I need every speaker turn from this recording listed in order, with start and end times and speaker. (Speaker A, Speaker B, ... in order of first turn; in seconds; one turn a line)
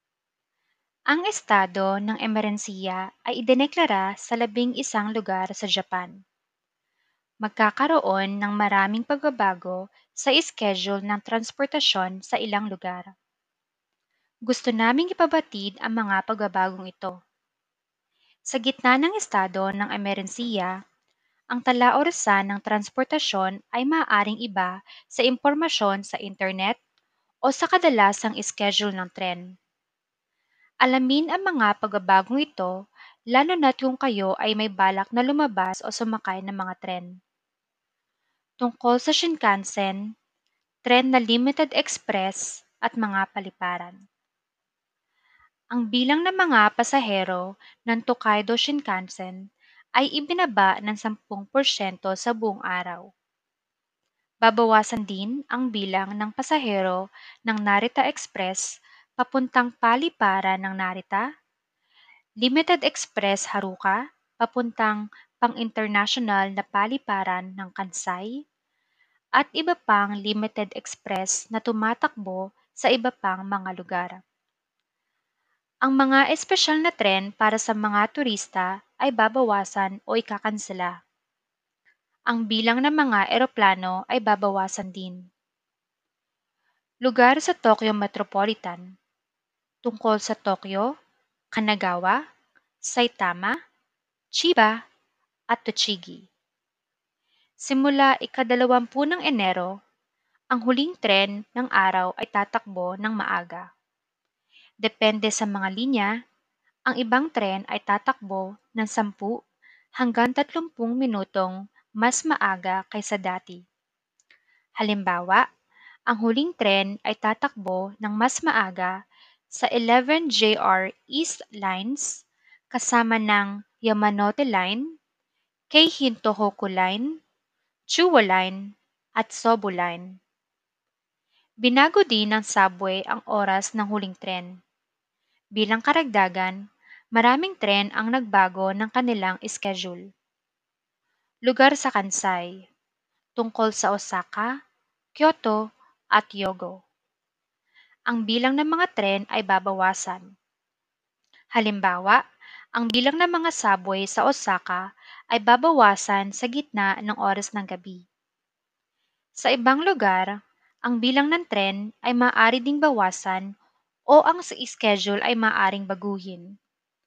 Speaker A: 1.1-6.1
Speaker A: 7.5-13.1
Speaker A: 14.5-17.1
Speaker A: 18.5-20.7
Speaker A: 21.5-26.8
Speaker A: 27.5-29.4
Speaker A: 30.9-32.7
Speaker A: 33.3-37.1
Speaker A: 38.6-40.0
Speaker A: 40.9-44.0
Speaker A: 45.7-49.4
Speaker A: 50.0-53.0
Speaker A: 54.5-58.6
Speaker A: 59.2-61.2
Speaker A: 62.4-68.3
Speaker A: 69.4-74.2
Speaker A: 75.8-80.9
Speaker A: 82.3-85.2
Speaker A: 87.0-88.8
Speaker A: 89.9-90.9
Speaker A: 91.5-92.2
Speaker A: 92.9-93.5
Speaker A: 94.4-94.7
Speaker A: 95.5-96.2
Speaker A: 97.7-99.7
Speaker A: 100.5-103.7
Speaker A: 104.8-106.1
Speaker A: 106.9-109.3
Speaker A: 110.0-113.6
Speaker A: 114.8-115.4
Speaker A: 116.1-118.9
Speaker A: 119.6-122.1
Speaker A: 122.7-124.8
Speaker A: 125.7-127.0
Speaker A: 127.9-128.6
Speaker A: 129.2-130.0
Speaker A: 131.7-134.5
Speaker A: 135.6-136.6
Speaker A: 137.2-140.0
Speaker A: 141.5-142.5
Speaker A: 143.4-144.5
Speaker A: 145.2-145.6
Speaker A: 146.2-146.7
Speaker A: 148.1-150.2
Speaker A: 151.6-152.2
Speaker A: 152.8-154.8
Speaker A: 155.3-158.0
Speaker A: 159.4-160.3
Speaker A: 160.9-163.4
Speaker A: 164.1-166.5